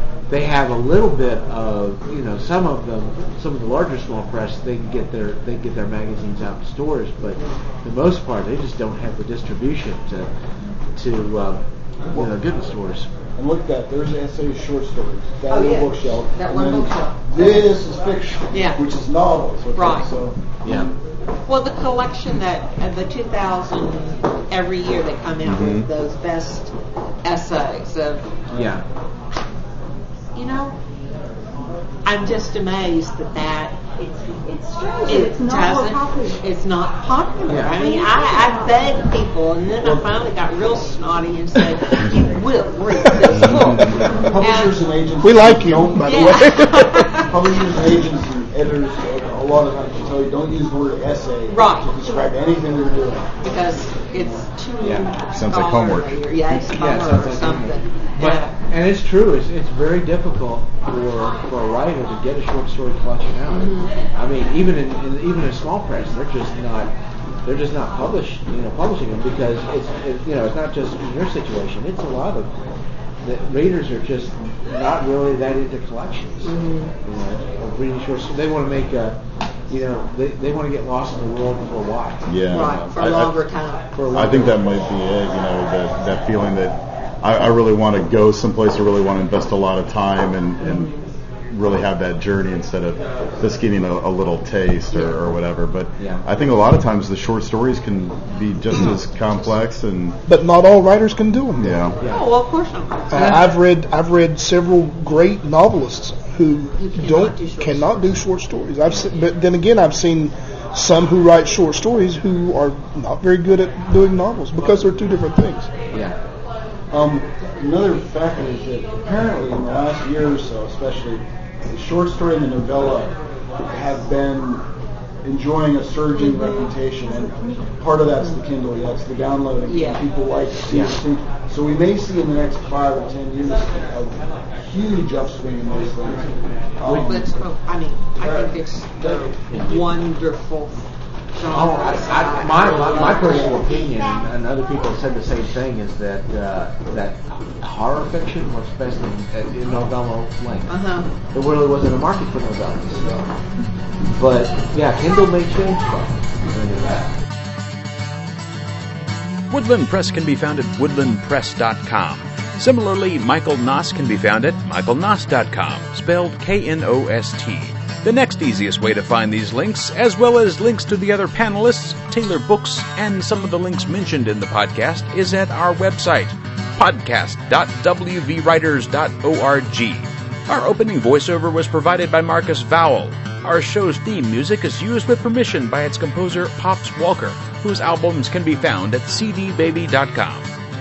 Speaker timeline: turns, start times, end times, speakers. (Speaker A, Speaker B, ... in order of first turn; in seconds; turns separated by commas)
Speaker A: 0.3-10.3, Speaker A: 11.0-13.1, Speaker B: 13.4-20.9, Speaker C: 15.5-17.7, Speaker C: 18.5-18.8, Speaker C: 19.8-20.1, Speaker A: 20.6-20.9, Speaker C: 21.5-26.7, Speaker D: 25.4-25.9, Speaker C: 27.2-28.4, Speaker B: 28.5-28.8, Speaker A: 28.5-28.8, Speaker C: 30.4-30.8, Speaker C: 32.0-33.8, Speaker E: 34.0-36.4, Speaker C: 35.1-44.8, Speaker A: 37.5-37.8, Speaker E: 37.7-38.9, Speaker D: 43.5-44.0, Speaker B: 44.1-46.2, Speaker F: 45.2-47.3, Speaker C: 46.0-47.6, Speaker B: 47.3-53.3, Speaker C: 51.5-51.9, Speaker C: 53.4-58.5, Speaker A: 54.8-55.1, Speaker D: 55.3-56.2, Speaker A: 56.7-66.9, Speaker C: 63.5-63.9, Speaker A: 67.4-72.5, Speaker A: 73.2-76.5, Speaker C: 76.4-76.9, Speaker A: 77.0-79.2, Speaker A: 79.7-82.2, Speaker D: 82.3-83.4, Speaker C: 82.5-83.9, Speaker A: 84.0-84.6, Speaker D: 84.0-90.9, Speaker C: 90.6-91.0, Speaker D: 91.5-100.2, Speaker A: 94.9-95.2, Speaker A: 96.0-96.2, Speaker F: 100.3-101.8, Speaker D: 101.6-102.0, Speaker C: 102.0-103.6, Speaker F: 103.1-115.7, Speaker C: 106.8-108.2, Speaker B: 116.9-124.6, Speaker B: 125.2-137.3, Speaker C: 126.1-126.7, Speaker C: 129.7-130.0, Speaker A: 130.7-131.0, Speaker A: 136.8-137.2, Speaker C: 137.0-140.8, Speaker B: 138.2-139.2, Speaker A: 139.5-139.7, Speaker C: 141.3-144.2, Speaker A: 141.5-150.7, Speaker B: 143.1-143.5, Speaker C: 150.7-151.1, Speaker A: 151.3-153.3, Speaker A: 154.1-157.1, Speaker G: 159.5-190.5